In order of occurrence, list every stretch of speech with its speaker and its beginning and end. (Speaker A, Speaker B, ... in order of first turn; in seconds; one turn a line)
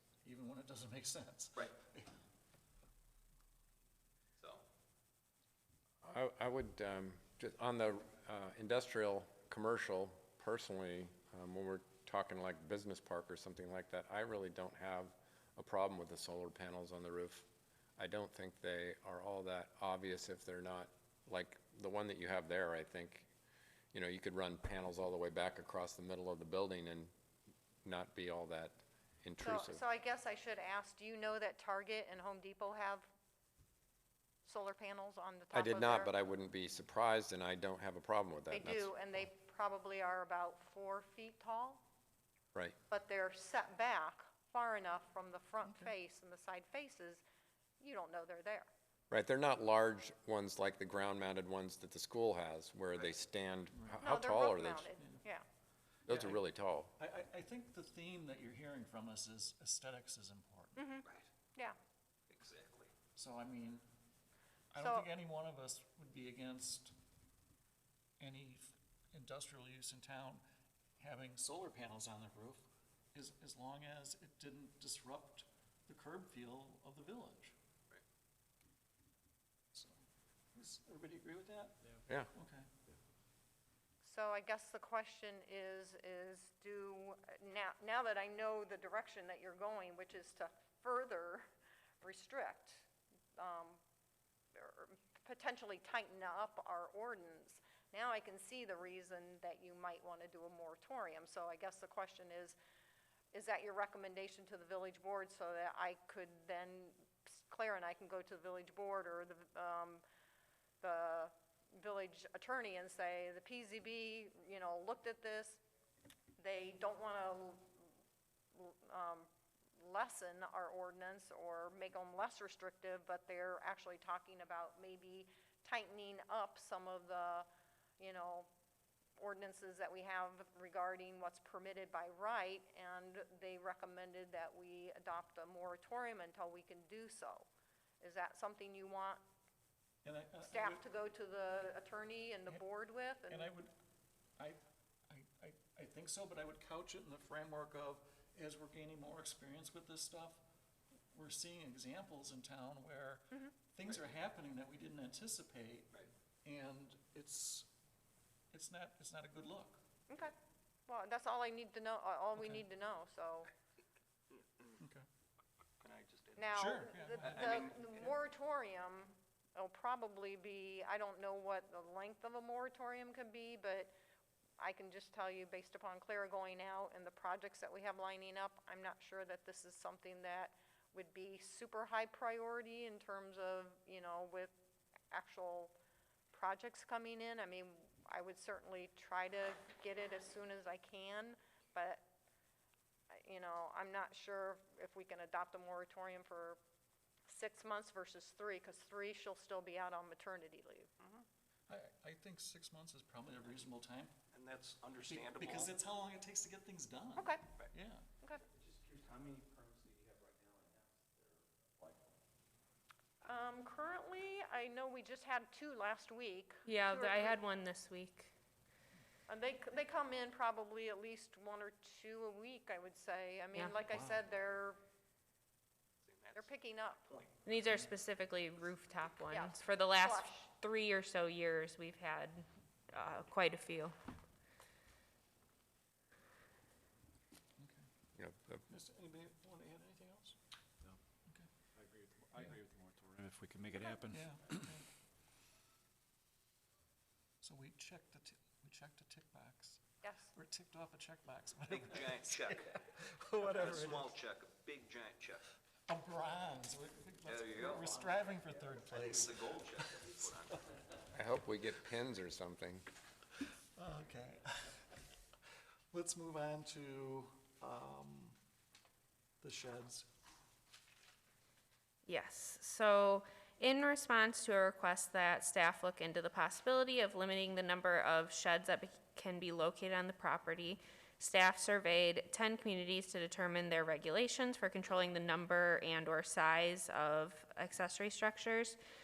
Speaker A: 0.2-2.1
Speaker B: 4.4-4.6
Speaker C: 6.0-23.3
Speaker C: 23.9-27.1
Speaker C: 27.8-29.8
Speaker D: 29.4-33.1
Speaker D: 34.5-36.1
Speaker C: 35.5-39.3
Speaker D: 38.5-41.8
Speaker D: 42.9-47.2
Speaker A: 45.6-45.9
Speaker D: 47.8-48.7
Speaker C: 49.1-54.9
Speaker A: 53.7-54.0
Speaker D: 54.0-55.5
Speaker A: 55.0-55.2
Speaker A: 56.1-56.4
Speaker C: 56.1-56.9
Speaker A: 57.0-60.8
Speaker D: 60.8-61.8
Speaker B: 61.0-61.3
Speaker B: 62.3-62.9
Speaker A: 63.2-63.9
Speaker A: 64.7-66.9
Speaker D: 64.8-65.1
Speaker A: 68.2-70.4
Speaker A: 71.0-77.5
Speaker A: 79.7-80.0
Speaker A: 80.5-81.8
Speaker A: 82.3-82.7
Speaker D: 84.0-91.5
Speaker D: 92.0-92.9
Speaker D: 93.4-93.8
Speaker D: 94.5-102.6
Speaker D: 103.3-110.0
Speaker D: 110.8-115.6
Speaker D: 116.4-117.7
Speaker D: 118.5-119.3
Speaker D: 119.8-127.5
Speaker D: 128.0-128.5
Speaker D: 129.2-137.5
Speaker D: 138.0-139.2
Speaker A: 140.0-140.8
Speaker D: 140.4-143.5
Speaker A: 143.3-143.7
Speaker A: 144.4-150.4
Speaker A: 151.1-157.7
Speaker A: 158.5-159.8
Speaker D: 160.9-163.5
Speaker A: 162.4-162.6
Speaker B: 164.4-164.7
Speaker A: 164.8-165.1
Speaker B: 165.8-167.8
Speaker D: 166.4-173.9
Speaker A: 166.5-168.1
Speaker D: 174.6-184.5
Speaker D: 185.1-185.8
Speaker D: 186.3-192.1
Speaker D: 193.1-196.6
Speaker D: 197.3-201.1
Speaker A: 201.7-204.1
Speaker B: 204.3-205.8
Speaker A: 205.1-208.1
Speaker D: 207.2-207.4
Speaker E: 208.5-212.2
Speaker D: 213.2-217.4
Speaker F: 216.7-218.3
Speaker D: 219.3-224.8
Speaker A: 223.9-224.2
Speaker B: 226.0-227.4
Speaker D: 226.3-227.1
Speaker F: 227.4-233.9
Speaker D: 229.3-230.5
Speaker A: 237.6-237.9
Speaker C: 238.2-238.6
Speaker A: 238.7-240.4
Speaker E: 241.8-244.7
Speaker A: 244.1-244.8
Speaker A: 247.4-254.1
Speaker D: 250.0-250.3
Speaker B: 251.7-252.7
Speaker B: 253.4-255.5
Speaker A: 255.9-260.5
Speaker B: 257.2-258.0
Speaker B: 258.9-260.6
Speaker C: 261.1-262.9
Speaker A: 263.8-264.9
Speaker A: 265.9-268.4
Speaker A: 269.4-270.1
Speaker F: 272.1-288.8